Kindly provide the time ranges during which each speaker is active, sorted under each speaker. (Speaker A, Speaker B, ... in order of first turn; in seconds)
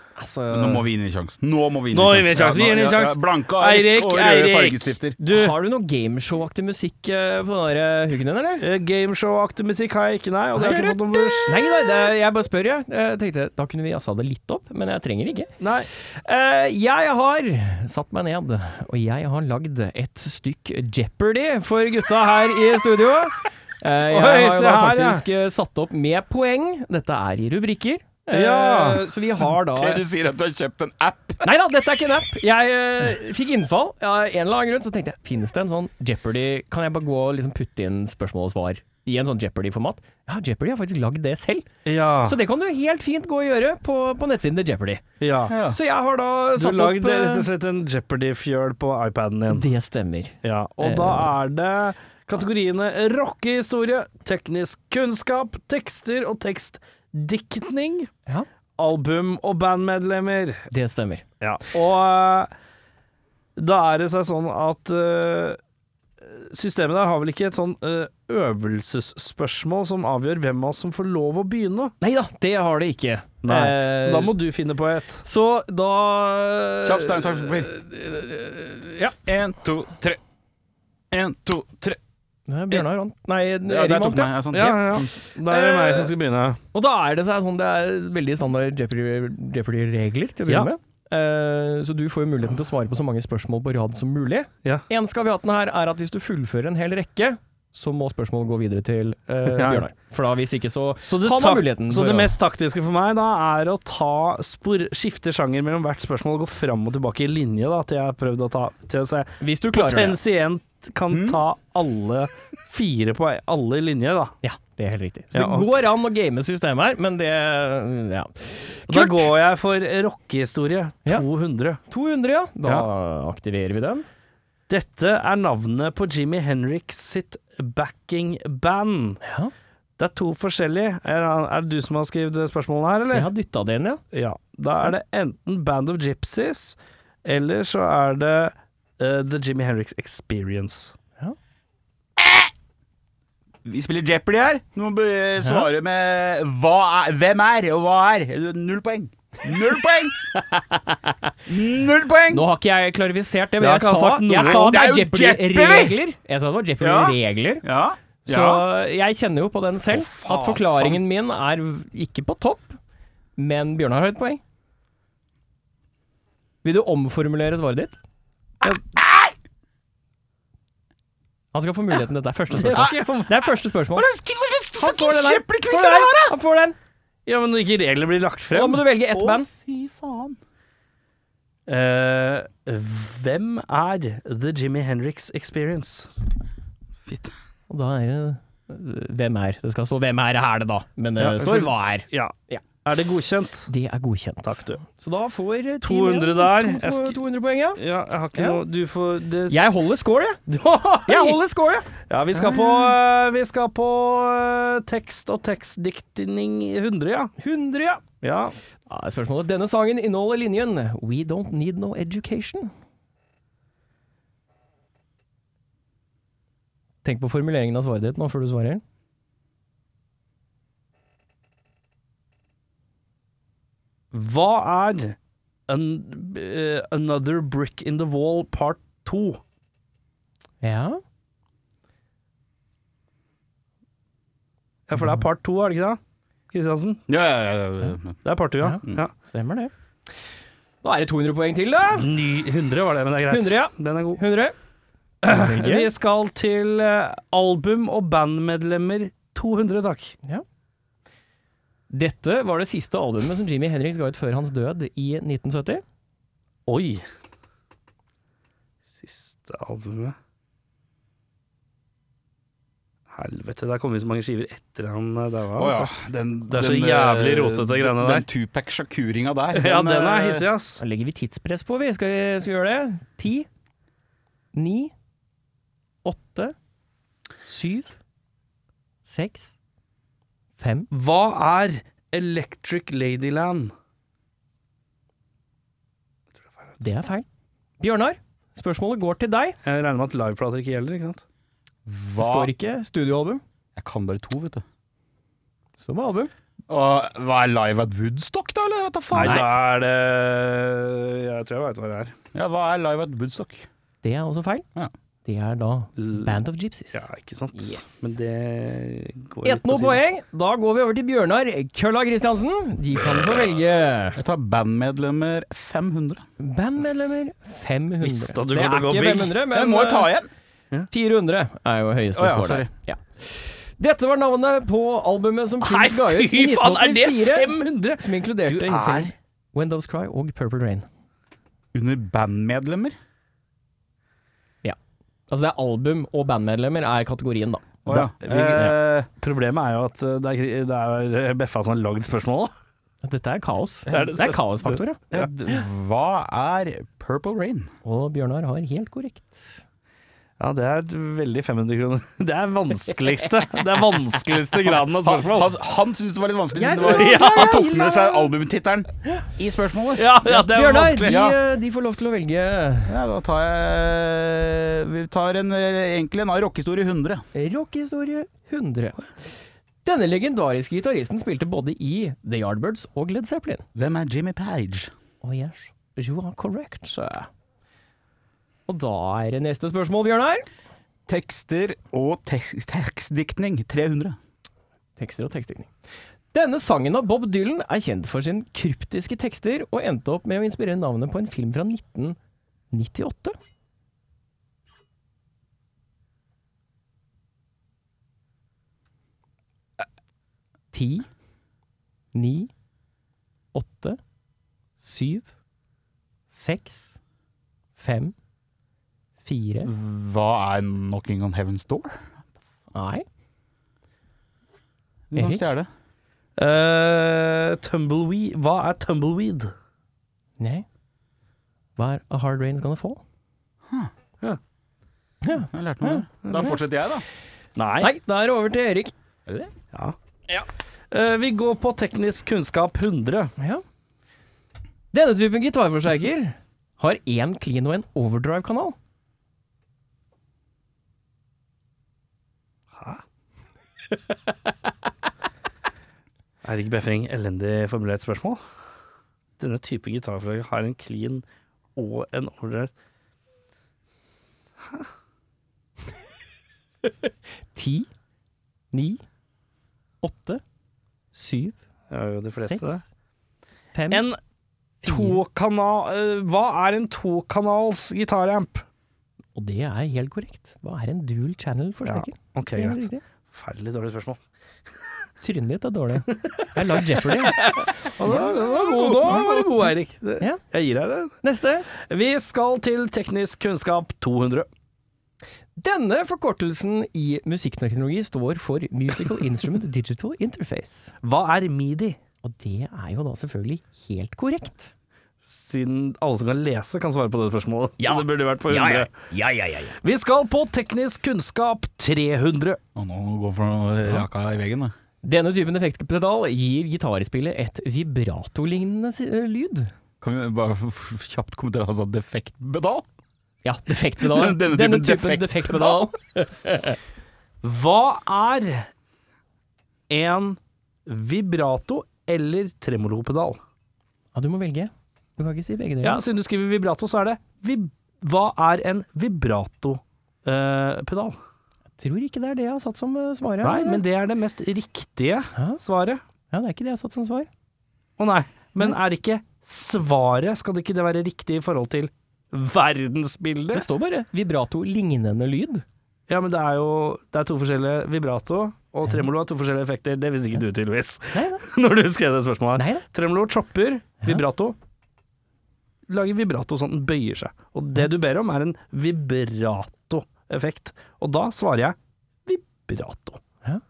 Speaker A: 0.2-0.8, 5.3-8.6, 11.5-30.0, 31.4-41.7, 42.2-45.0, 45.6-47.5, 49.5-51.3, 60.7-61.2, 72.0-74.3, 75.2-79.1, 82.5-86.1, 86.7-102.3, 109.4-110.2, 114.4-119.3, 121.9-124.0, 129.2-129.5, 133.1-134.0, 145.4-145.7, 152.3-157.7, 158.2-162.8, 163.4-164.4, 166.6-168.0, 171.5-174.1, 174.8-176.8, 178.5-179.5, 187.7-192.6, 193.7-197.8, 198.3-198.6, 199.5-200.4, 201.1-202.8, 207.4-208.0, 208.9-212.7, 217.0-218.8, 230.6-231.0, 235.0-235.2, 238.6-239.7, 240.8-242.1, 243.3-244.5, 245.2-245.9, 251.9-255.8, 270.8-273.5, 274.5-274.9, 276.0-276.5, 277.4-277.9, 279.0-279.5, 280.6-280.9, 286.8-287.2, 287.8-289.6, 292.2-293.4, 295.8-296.3, 299.2-299.5, 304.0-304.6, 305.2-308.1, 309.4-314.2, 316.4-320.1, 320.9-330.9, 335.3-338.7, 343.0-345.0, 347.8-349.6, 356.5-358.3, 360.2-362.9, 367.3-369.0, 369.8-373.6, 375.2-377.3, 378.7-380.5, 385.0-385.7, 386.3-392.2, 392.7-393.4, 400.7-401.1, 402.1-402.5, 403.5-404.0, 404.8-405.3, 406.3-407.0, 407.8-408.1, 409.2-409.7, 412.7-413.0, 415.1-415.5, 420.4-420.6, 421.8-423.0, 425.2-426.5, 427.8-428.9, 433.4-433.6, 434.9-438.8, 456.8-457.9, 458.7-459.0, 460.0-460.4, 461.1-461.6, 462.4-462.8, 463.7-464.1, 464.8-465.2, 469.3-473.0, 475.2-480.4, 481.2-481.7, 485.6-490.9, 492.2-494.7, 497.8-499.8, 505.0-509.7, 513.4-516.8, 524.1-526.0, 531.8-533.8, 535.3-535.6, 536.3-537.3, 543.5-545.6, 551.1-551.4, 552.5-552.8
Speaker B: 0.5-5.2, 10.6-11.4, 29.6-31.5, 45.5-45.8, 76.8-77.8, 79.2-80.2, 81.1-82.0, 83.7-85.1, 111.1-111.4, 142.2-142.4, 143.6-150.2, 151.4-152.4, 154.4-156.0, 156.8-158.6, 159.9-161.0, 168.6-169.3, 173.9-176.3, 179.1-180.4, 187.0-187.3, 237.1-238.2, 265.6-270.5, 291.9-292.5, 293.8-294.6, 296.7-299.5, 302.3-303.7, 314.1-316.2, 319.5-320.3, 322.2-322.7, 331.7-332.9, 337.9-339.1, 345.1-347.7, 354.9-360.1, 361.1-361.4, 362.9-367.2, 373.7-374.9, 381.1-384.2, 409.6-412.0, 415.1-415.7, 425.5-427.0, 429.3-429.5, 502.7-504.7, 510.0-512.9, 514.0-515.9
Speaker C: 1.9-5.5, 8.6-11.5, 15.6-15.9, 24.1-25.2, 28.3-29.1, 41.8-42.4, 45.2-45.6, 46.5-49.7, 50.4-58.1, 58.8-60.7, 61.4-62.5, 63.5-65.6, 66.2-71.9, 73.4-75.2, 84.5-86.6, 99.5-99.8, 101.0-114.3, 115.3-115.7, 118.9-121.8, 124.7-129.2, 130.0-133.3, 134.1-140.9, 153.6-154.8, 172.5-173.4, 177.2-178.8, 181.7-186.2, 191.2-192.3, 192.8-193.7, 194.4-194.8, 195.8-197.2, 197.8-199.6, 200.5-201.4, 202.1-207.3, 208.2-208.5, 224.1-225.2, 225.7-229.4, 234.9-236.0, 236.5-237.0, 238.2-239.1, 241.9-244.2, 245.2-250.2, 256.7-257.0, 258.9-260.1, 263.1-265.9, 266.5-268.2, 269.5-270.8, 280.9-283.7, 289.6-291.2, 299.1-302.1, 306.0-306.4, 306.9-310.0, 318.0-319.4, 325.6-329.1, 337.9-342.5, 343.9-345.3, 350.4-355.5, 356.8-357.6, 360.0-361.2, 416.4-419.5, 426.2-426.5, 427.6-427.9, 429.7-433.3, 442.8-443.0, 446.4-448.4, 449.4-451.2, 451.8-452.7, 461.9-462.8, 463.9-464.2, 464.8-468.6, 471.9-474.2, 476.1-481.2, 481.7-484.5, 491.0-492.0, 495.3-498.9, 499.8-502.6, 517.4-518.7, 519.9-523.4, 525.8-531.2, 533.4-536.0, 538.0-543.6, 546.1-554.5, 555.9-563.2